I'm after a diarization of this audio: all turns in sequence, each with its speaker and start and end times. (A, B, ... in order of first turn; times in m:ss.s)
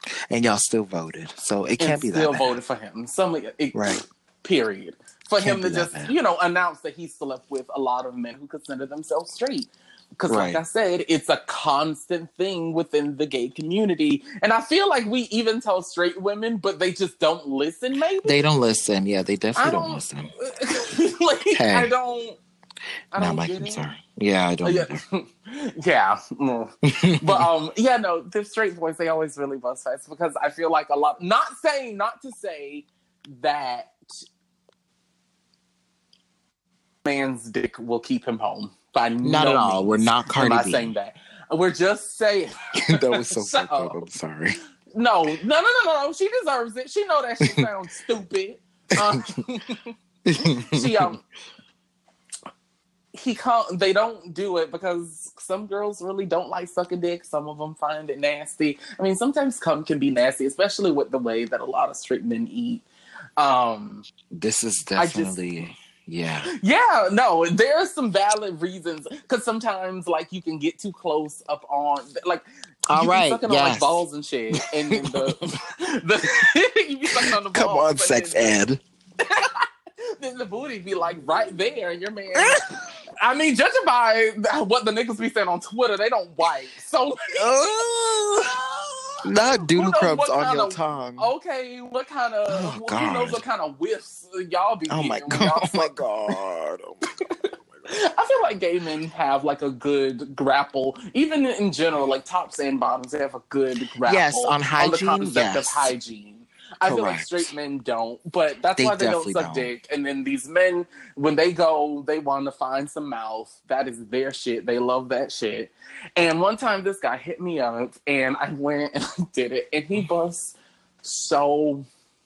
0:00.3-0:02.6 A
0:01.8-0:18.4 B
0:03.7-0:04.0 A
0:05.4-0:06.1 A
0:10.3-0:10.6 A
0:18.2-0:20.3 A
0:19.6-0:22.4 B
0:21.5-0:21.9 A
0:23.1-0:23.8 B
0:23.1-0:25.0 A
0:24.6-0:34.2 B
0:26.8-0:27.5 A
0:37.0-0:44.0 B
0:39.2-0:40.9 A
0:42.8-0:44.6 A
0:44.9-0:51.2 B
0:50.2-0:51.1 A
0:53.1-1:02.8 B
1:03.4-1:04.0 B
1:04.3-1:06.5 A
1:05.0-1:05.7 B
1:06.5-1:18.6 B
1:12.9-1:14.0 A
1:14.6-1:15.4 A
1:17.1-1:18.8 A
1:19.2-1:22.6 B
1:22.3-1:22.6 A
1:23.2-1:27.6 B
1:27.3-1:28.5 A
1:28.4-1:36.0 B
1:29.2-1:31.3 A
1:32.5-1:33.4 A
1:34.9-1:37.0 A
1:37.9-2:01.8 B
1:44.0-1:45.9 A
1:46.8-1:47.5 A
1:48.8-1:49.7 A